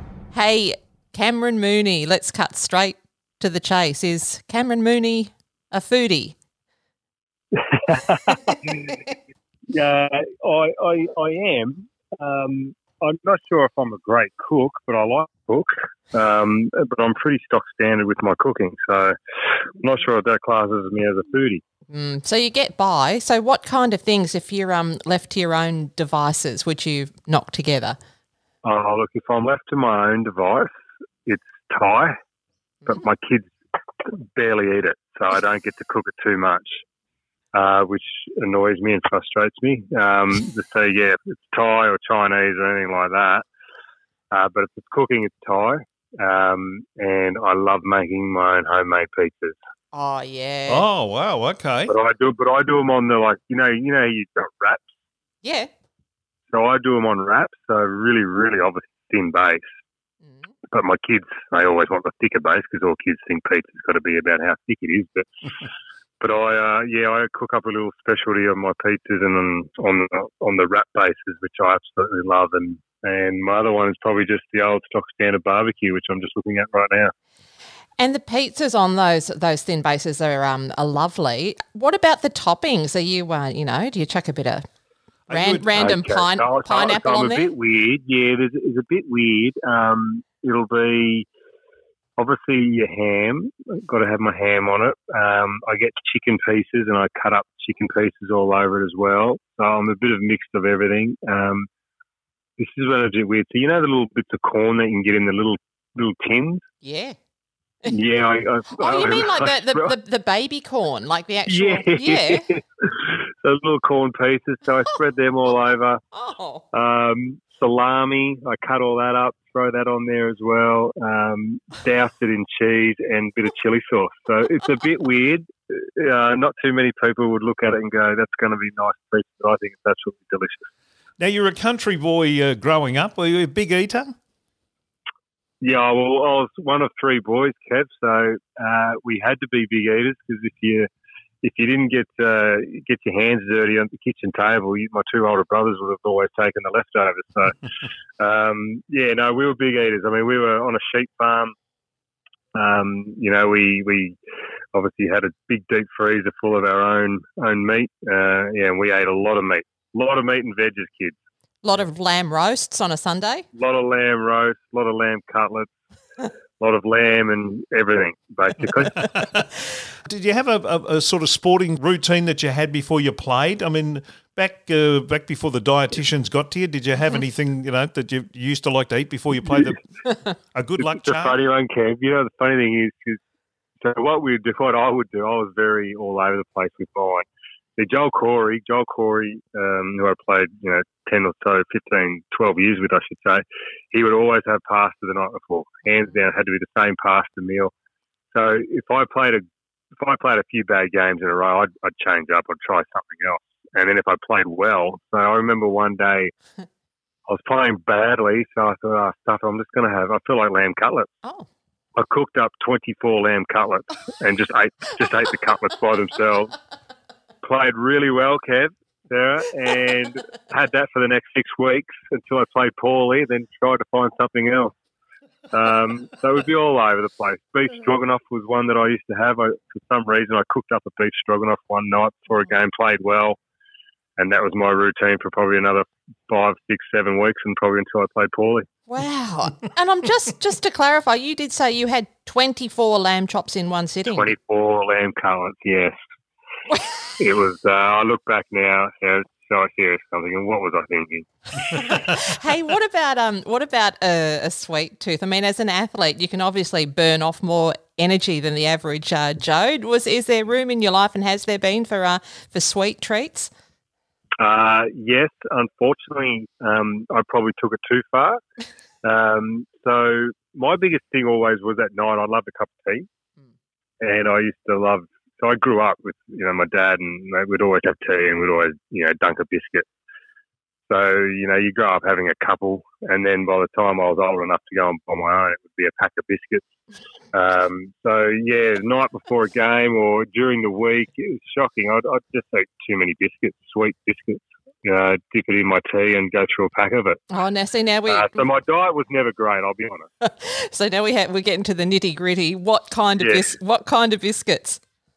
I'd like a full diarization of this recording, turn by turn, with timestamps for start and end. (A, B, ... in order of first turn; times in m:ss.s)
0:00.3-0:06.4 A
0:07.5-0:08.9 B
0:09.7-0:19.2 B
0:19.8-0:21.6 B
0:21.9-0:28.0 A
0:28.6-0:30.7 B
0:31.2-0:32.2 B
0:32.8-0:36.8 B
0:37.5-0:43.4 B
0:44.3-0:49.6 B
0:49.9-0:50.8 A
0:50.7-0:51.9 C
0:51.9-0:54.9 B
0:55.4-0:55.7 A
0:56.5-0:59.6 B
1:00.7-1:05.3 B
1:06.2-1:17.1 B
1:18.0-1:24.6 A
1:25.3-1:25.7 C
1:25.3-1:27.5 A
1:25.7-1:31.2 B
1:32.2-1:41.7 B
1:42.6-1:46.6 B
1:46.8-1:47.2 A
1:47.8-1:49.9 B
1:48.8-1:52.4 A
1:51.5-1:56.0 B
1:56.1-1:56.6 A
1:56.7-2:10.7 B
2:11.2-2:14.2 C
2:15.6-2:20.9 B
2:21.4-2:27.6 B
2:28.2-2:31.5 B
2:32.5-2:34.2 B
2:34.7-2:41.1 B
2:41.6-2:43.4 A
2:43.6-2:45.7 B
2:46.6-2:49.1 B
2:49.0-2:49.5 C
2:50.0-2:59.8 C
3:00.5-3:01.4 C
3:00.8-3:03.2 B
3:03.8-3:07.2 B
3:07.8-3:17.7 B
3:18.3-3:19.4 B
3:20.0-3:26.3 B
3:27.3-3:31.1 B
3:32.0-3:36.5 B
3:37.4-3:44.7 B
3:45.5-3:53.4 B
3:54.2-3:58.7 B
3:58.9-4:04.3 A
4:04.1-4:05.9 B
4:07.2-4:11.3 B
4:11.7-4:23.5 A
4:24.4-4:28.4 B
4:29.0-4:33.0 B
4:34.0-4:39.8 B
4:40.9-4:46.6 B
4:47.3-4:57.2 B
4:57.3-4:58.4 A
4:58.1-5:00.1 B
5:00.2-5:04.8 A
5:03.2-5:03.5 B